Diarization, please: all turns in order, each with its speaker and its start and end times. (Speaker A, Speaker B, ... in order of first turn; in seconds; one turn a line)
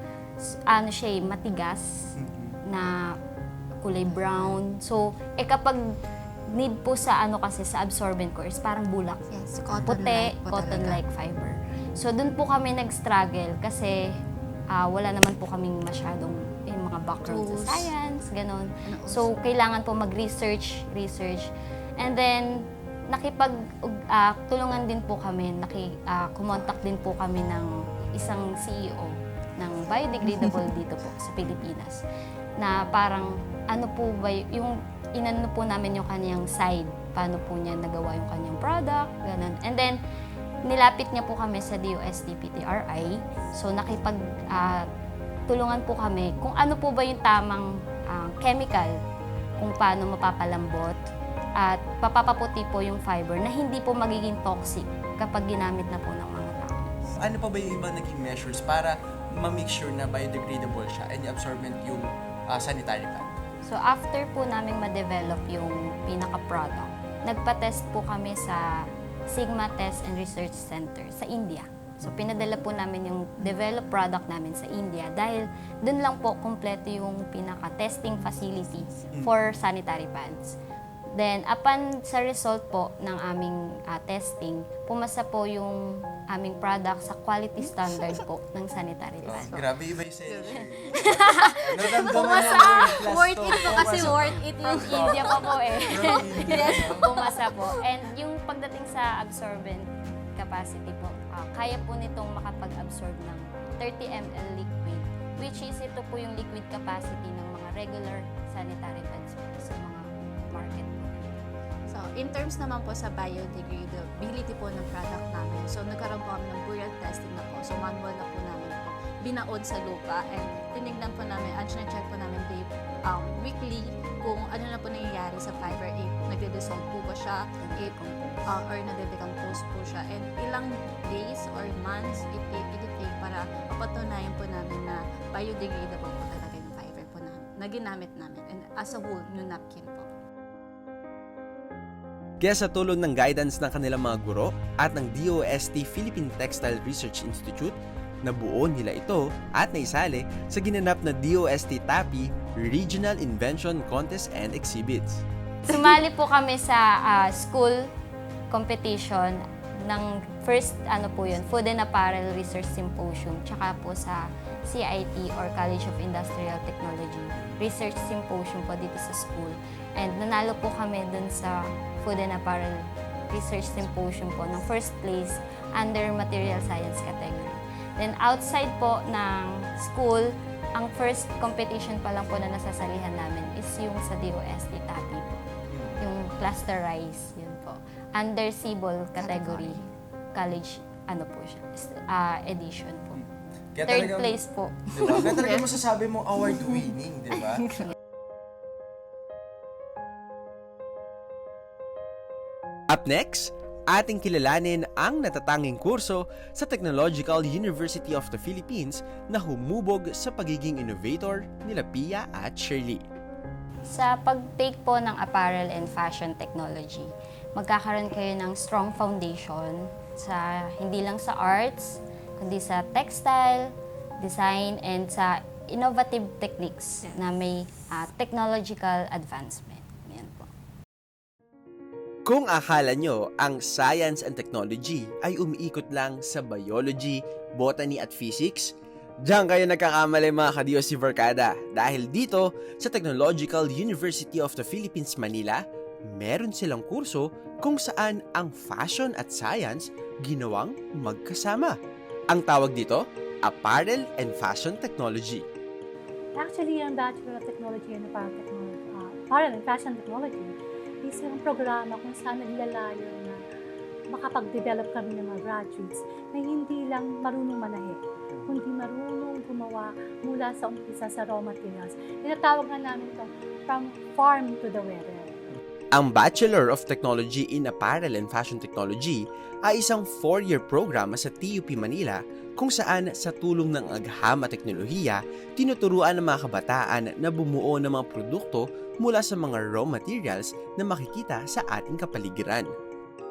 Speaker A: 0.4-1.9
Speaker B: 2.2-2.6
Speaker A: 2.7-3.0
Speaker A: 3.8-5.8
Speaker C: 4.1-4.6
Speaker A: 6.5-9.2
Speaker C: 9.3-11.0
Speaker A: 9.8-14.0
Speaker A: 14.7-32.0
Speaker C: 17.2-17.9
Speaker C: 18.9-19.3
Speaker A: 32.6-40.0
Speaker A: 40.6-44.9
Speaker A: 45.5-49.0
Speaker A: 49.6-51.0
Speaker A: 51.6-57.0
Speaker B: 57.2-63.4
Speaker A: 63.6-68.7
Speaker A: 69.3-80.5
Speaker A: 81.2-89.5
Speaker B: 89.2-97.1
Speaker C: 89.3-97.8
Speaker A: 90.9-93.0
Speaker A: 94.7-111.4
Speaker C: 111.9-140.1
Speaker A: 127.6-128.4
Speaker D: 142.4-155.2
Speaker A: 155.7-157.9
Speaker A: 158.5-185.5
Speaker B: 185.7-186.0
Speaker A: 186.0-193.2
Speaker C: 189.2-189.9
Speaker B: 193.2-194.3
Speaker A: 193.8-195.5
Speaker B: 194.9-197.9
Speaker D: 202.9-213.0
Speaker A: 213.9-230.5
Speaker D: 232.3-251.8
Speaker D: 252.3-255.4
Speaker E: 256.4-263.4
Speaker E: 264.1-275.6
Speaker D: 275.9-292.7